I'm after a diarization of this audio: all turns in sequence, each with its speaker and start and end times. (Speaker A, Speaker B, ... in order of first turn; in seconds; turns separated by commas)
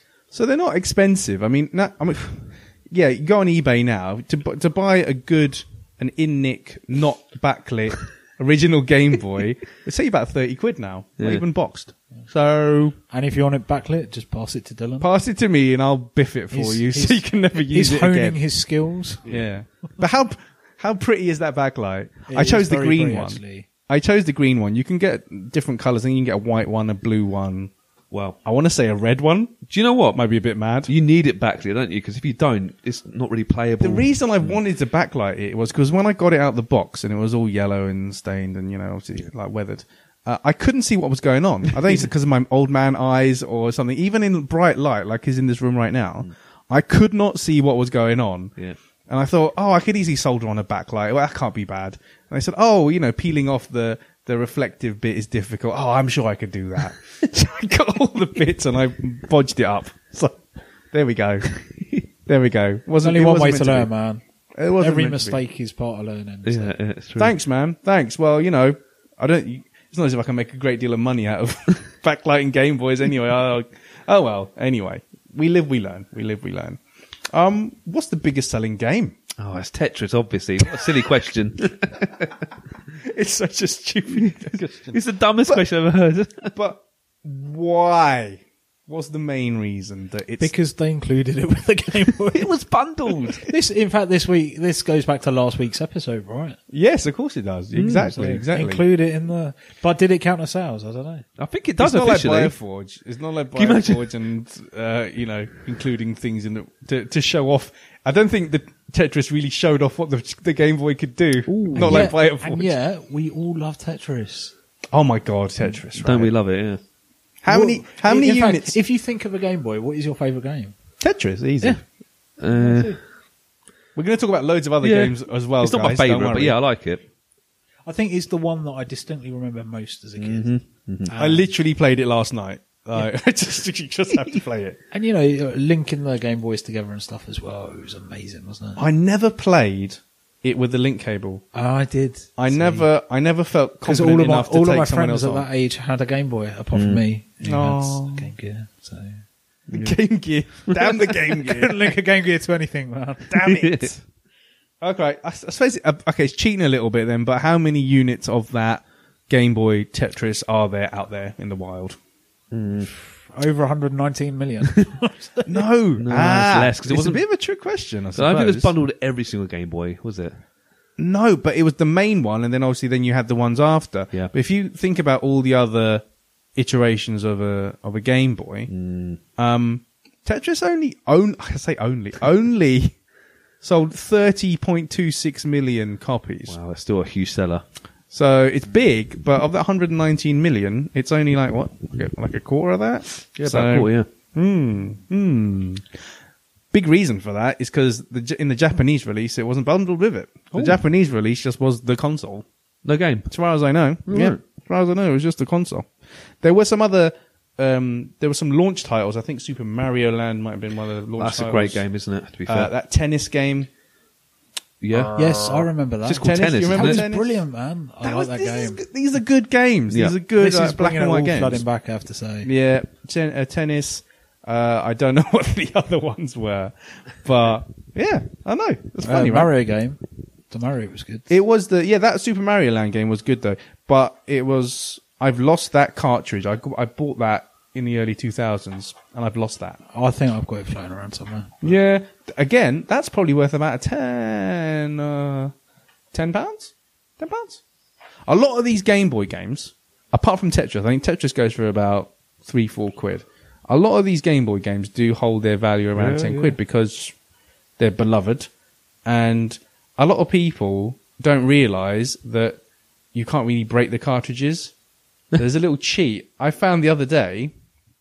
Speaker A: 0.3-13.0, Speaker B: 11.2-11.4, Speaker C: 13.1-15.1, Speaker A: 15.0-18.4, Speaker C: 16.5-19.2, Speaker A: 19.2-27.7, Speaker C: 22.3-23.7, Speaker B: 28.1-28.4, Speaker A: 28.4-29.6, Speaker B: 29.7-30.2, Speaker A: 30.1-30.9, Speaker B: 30.9-34.5, Speaker A: 33.8-48.5, Speaker A: 49.1-61.5, Speaker A: 62.2-63.9, Speaker C: 63.0-64.2, Speaker A: 64.5-65.4, Speaker C: 64.8-66.7, Speaker B: 66.4-67.3, Speaker A: 67.2-76.8, Speaker A: 77.3-79.2, Speaker B: 79.4-82.3, Speaker A: 83.0-85.6, Speaker B: 84.2-86.5, Speaker A: 86.5-90.5, Speaker C: 90.4-92.5, Speaker B: 92.3-93.5, Speaker C: 93.4-96.6, Speaker A: 96.7-98.8, Speaker B: 97.7-98.4, Speaker C: 98.1-101.2, Speaker B: 101.4-102.5, Speaker A: 101.8-112.7, Speaker B: 103.5-104.1, Speaker B: 111.5-112.1, Speaker C: 111.7-114.5, Speaker A: 114.9-116.3, Speaker B: 115.9-116.8, Speaker A: 117.4-118.8, Speaker C: 117.5-120.7, Speaker A: 121.0-121.8, Speaker B: 122.4-123.0, Speaker C: 122.4-123.0, Speaker A: 124.0-126.6, Speaker B: 124.8-127.0, Speaker C: 127.9-130.5, Speaker B: 130.2-131.1, Speaker C: 131.1-131.5, Speaker A: 131.2-134.8, Speaker C: 134.9-138.8, Speaker A: 138.8-141.4, Speaker C: 141.5-142.9, Speaker A: 142.4-145.4, Speaker C: 143.8-149.2, Speaker B: 146.7-147.0, Speaker A: 147.4-148.3, Speaker A: 149.7-151.9, Speaker B: 149.7-150.0, Speaker B: 150.7-151.0, Speaker C: 151.4-153.5, Speaker A: 153.3-154.0, Speaker B: 153.4-153.9, Speaker A: 154.8-162.0, Speaker B: 162.5-162.9, Speaker C: 162.9-165.5, Speaker A: 165.4-168.7, Speaker B: 166.0-167.2, Speaker B: 168.1-170.4, Speaker A: 171.0-178.7, Speaker B: 178.7-179.2, Speaker A: 179.4-182.9, Speaker A: 183.6-186.6, Speaker B: 186.5-187.6, Speaker A: 188.1-195.9, Speaker B: 193.3-194.1, Speaker A: 196.7-202.4, Speaker B: 200.5-200.8, Speaker B: 202.8-203.3, Speaker A: 203.3-205.9, Speaker B: 204.1-204.4, Speaker A: 206.4-211.8, Speaker B: 211.2-212.7, Speaker A: 212.5-213.7, Speaker B: 214.8-217.0, Speaker C: 215.2-218.8, Speaker A: 216.2-217.4, Speaker A: 218.0-221.6, Speaker B: 219.9-220.2, Speaker C: 220.4-222.5, Speaker A: 222.4-229.5, Speaker C: 229.0-230.0, Speaker C: 230.5-231.3, Speaker A: 231.3-239.8, Speaker C: 239.9-241.6, Speaker A: 241.6-245.5, Speaker A: 246.1-247.6, Speaker A: 248.3-257.1, Speaker B: 255.9-256.6, Speaker A: 257.8-258.5, Speaker A: 259.0-262.6, Speaker A: 263.1-264.7, Speaker A: 265.4-267.5